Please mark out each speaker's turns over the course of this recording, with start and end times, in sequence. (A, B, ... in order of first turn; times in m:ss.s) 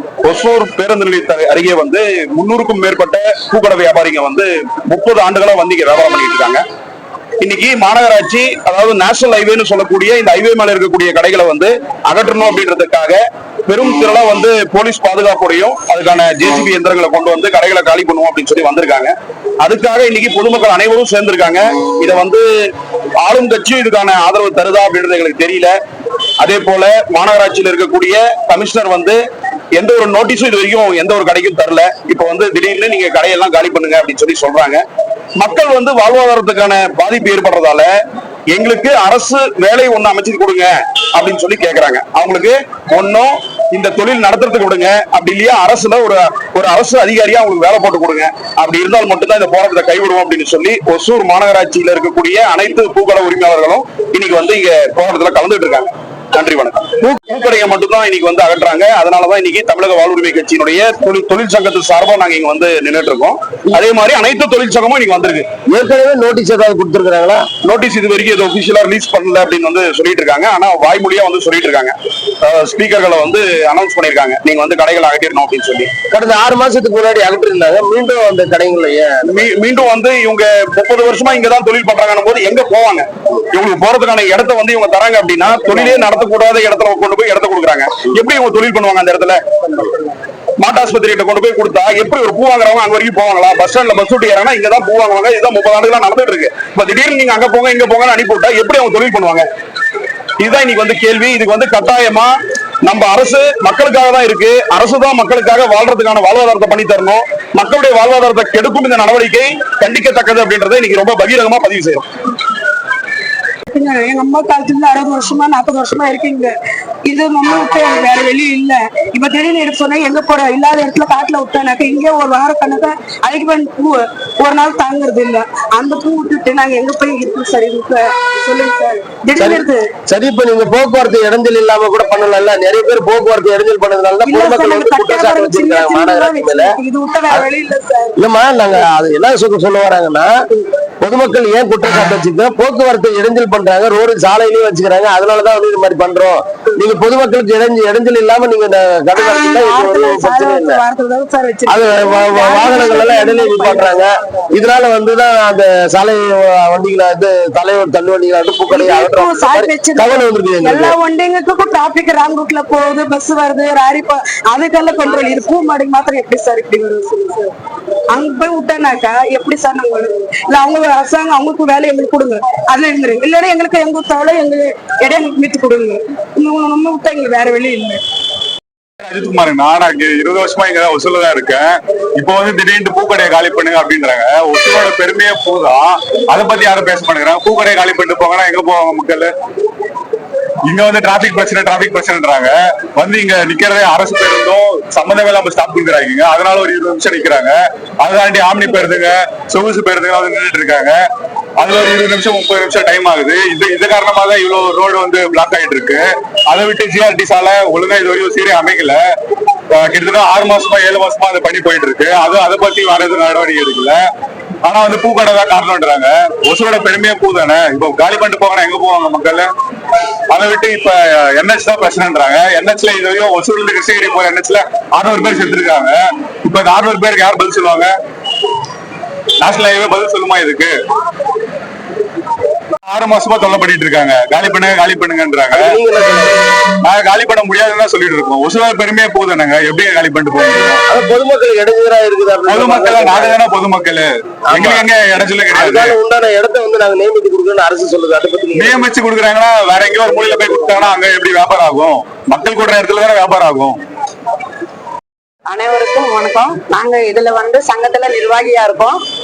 0:00.2-0:06.6 A
0:07.4-0:22.5 A
0:23.2-0:25.8 A
0:26.4-0:29.2 A
0:29.7-0:37.9 A
0:38.5-1:05.5 A
1:05.7-1:07.5 B
1:07.6-1:15.9 A
1:16.1-1:19.5 B
1:19.2-1:29.9 A
1:30.6-1:39.5 A
1:40.4-1:52.1 A
1:53.7-1:56.5 C
1:57.0-2:09.9 C
2:09.4-2:16.8 B
2:14.2-2:18.2 C
2:18.2-2:20.3 B
2:21.0-2:30.8 B
2:29.4-2:34.0 C
2:31.7-2:41.0 B
2:38.7-2:47.5 C
2:48.1-2:58.0 C
2:59.0-3:09.3 D
3:10.6-3:21.0 D
3:21.6-3:29.0 D
3:29.7-3:34.0 D
3:34.6-3:39.5 D
3:40.3-3:47.9 D
3:49.4-3:50.8 D
3:52.9-3:55.6 D
3:55.5-3:56.5 B
3:56.8-4:00.8 D
4:00.9-4:03.4 B
4:02.5-4:06.0 D
4:04.5-4:04.8 B
4:05.5-4:08.8 B
4:08.6-4:13.8 D
4:15.5-4:19.0 E